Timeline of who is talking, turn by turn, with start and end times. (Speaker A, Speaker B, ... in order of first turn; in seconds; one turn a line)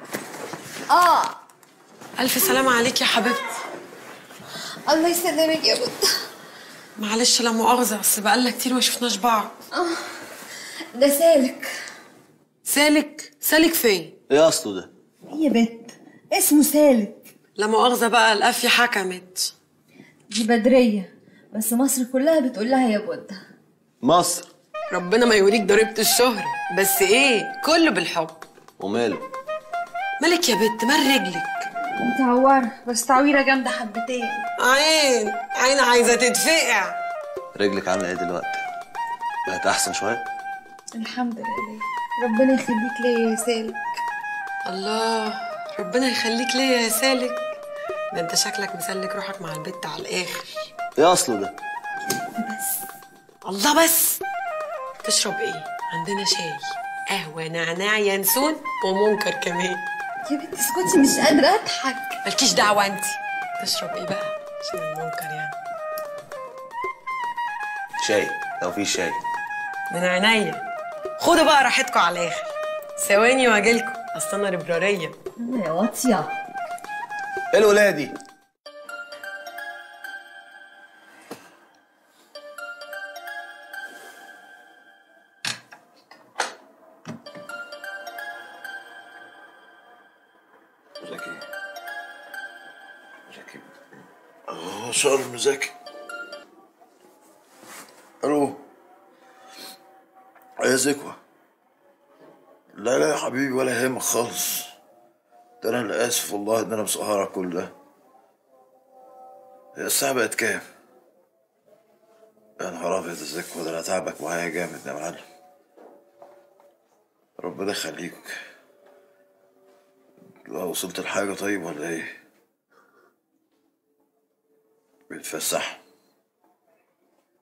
Speaker A: 0.9-1.4
Speaker B: 2.2-3.6
Speaker A: 4.9-6.1
Speaker B: 7.0-9.6
Speaker A: 9.7-10.2
Speaker A: 10.9-11.7
Speaker B: 12.7-14.1
Speaker C: 14.3-14.9
Speaker A: 15.3-17.3
Speaker B: 17.6-19.5
Speaker A: 20.3-23.4
Speaker C: 24.0-24.5
Speaker B: 24.9-28.4
Speaker C: 28.8-29.2
Speaker B: 30.2-31.7
Speaker A: 32.0-34.5
Speaker B: 34.6-37.0
Speaker C: 37.5-38.6
Speaker C: 39.5-40.2
Speaker A: 41.0-44.0
Speaker B: 44.6-47.6
Speaker B: 48.1-50.7
Speaker C: 51.0-51.5
Speaker A: 52.4-52.8
Speaker B: 53.4-54.2
Speaker B: 55.0-59.8
Speaker A: 60.2-62.2
Speaker B: 62.2-65.5
Speaker C: 68.0-69.2
Speaker B: 69.9-70.6
Speaker B: 71.2-75.2
Speaker A: 75.4-76.3
Speaker C: 77.5-78.1
Speaker D: 91.0-91.4
Speaker D: 93.3-93.7
Speaker D: 94.5-95.7
Speaker D: 98.2-98.6
Speaker D: 100.6-101.2
Speaker D: 102.7-104.7
Speaker D: 105.6-107.7
Speaker D: 109.8-110.6
Speaker D: 112.6-115.2
Speaker D: 117.4-118.3
Speaker D: 120.5-122.1
Speaker D: 125.1-125.8